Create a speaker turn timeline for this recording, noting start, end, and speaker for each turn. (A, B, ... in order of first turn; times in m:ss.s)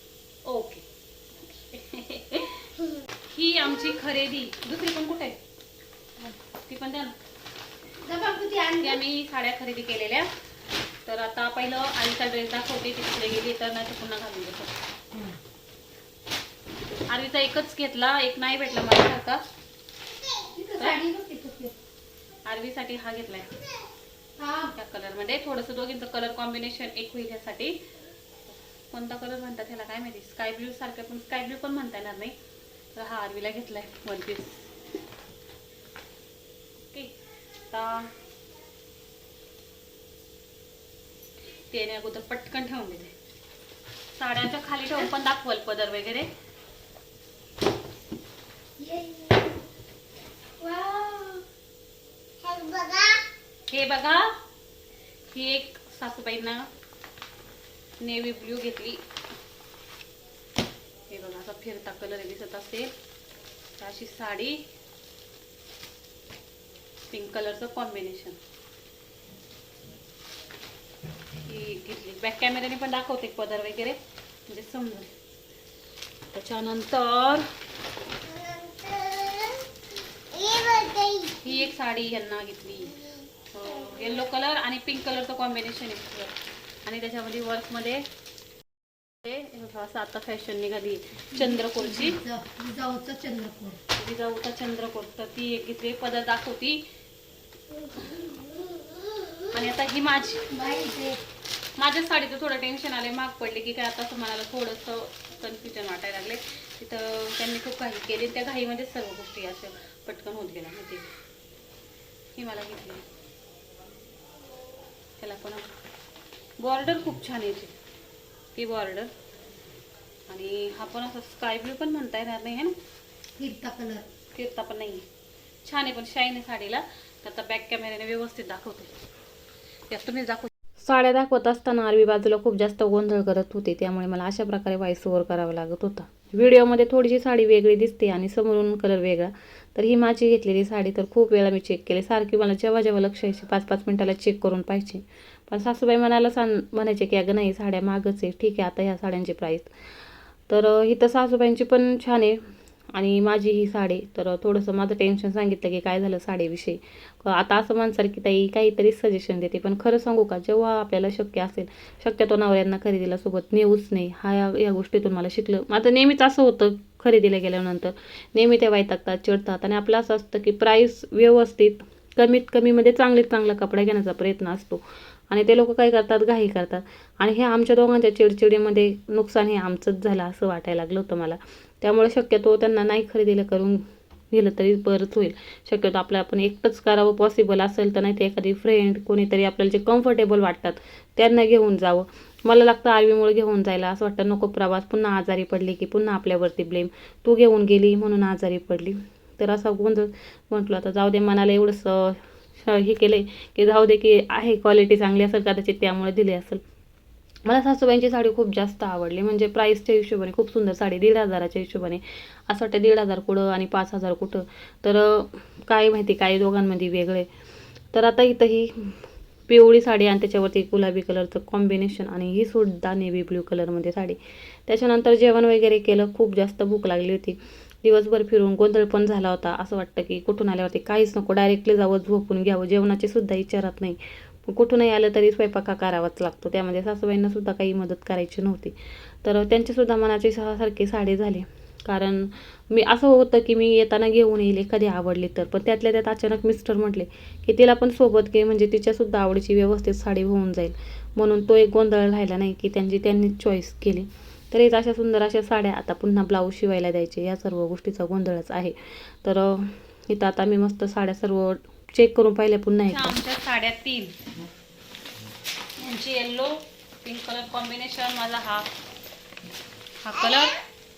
0:00.4-0:00.8 A
0:01.7-0:02.7 A
0:03.3-0:05.4 A
0:06.7-0:07.1 A
0:08.0-0:09.0 B
0:08.8-0:10.3 A
0:11.0-0:14.7 A
0:17.1-0:19.4 A
0:20.2-0:21.7 B
0:22.4-0:23.5 A
0:24.4-0:24.7 B
0:24.8-0:27.8 A
0:28.9-0:32.3 A
0:33.0-0:34.7 A
0:37.7-0:38.1 A
0:41.7-0:43.1 A
0:44.2-0:46.3 A
0:48.8-0:49.6 B
0:50.6-0:51.4 B
0:52.4-0:53.2 B
0:53.7-0:54.3 A
0:55.3-0:56.7 A
0:58.0-0:59.0 A
1:01.1-1:02.9 A
1:03.8-1:04.6 A
1:07.1-1:08.4 A
1:11.4-1:14.0 A
1:14.5-1:15.1 A
1:16.3-1:17.4 A
1:18.2-1:19.7 B
1:20.3-1:21.5 B
1:21.4-1:22.9 A
1:23.5-1:26.3 A
1:26.8-1:28.0 A
1:29.2-1:32.2 A
1:31.3-1:33.8 B
1:34.0-1:36.8 A
1:39.5-1:40.4 A
1:40.5-1:41.2 B
1:41.8-1:51.1 A
1:52.4-1:53.0 A
1:55.2-1:55.7 A
1:56.6-1:57.7 A
1:58.6-1:59.1 A
2:00.3-2:02.7 A
2:03.4-2:04.1 B
2:04.3-2:05.0 A
2:05.6-2:08.9 A
2:09.9-2:10.5 A
2:10.8-2:29.7 C
2:30.5-2:32.4 C
2:32.9-3:26.6 C
3:27.4-3:37.3 C
3:37.9-4:23.1 C
4:22.9-4:24.1 A
4:25.8-4:28.6 A
4:30.0-4:30.6 A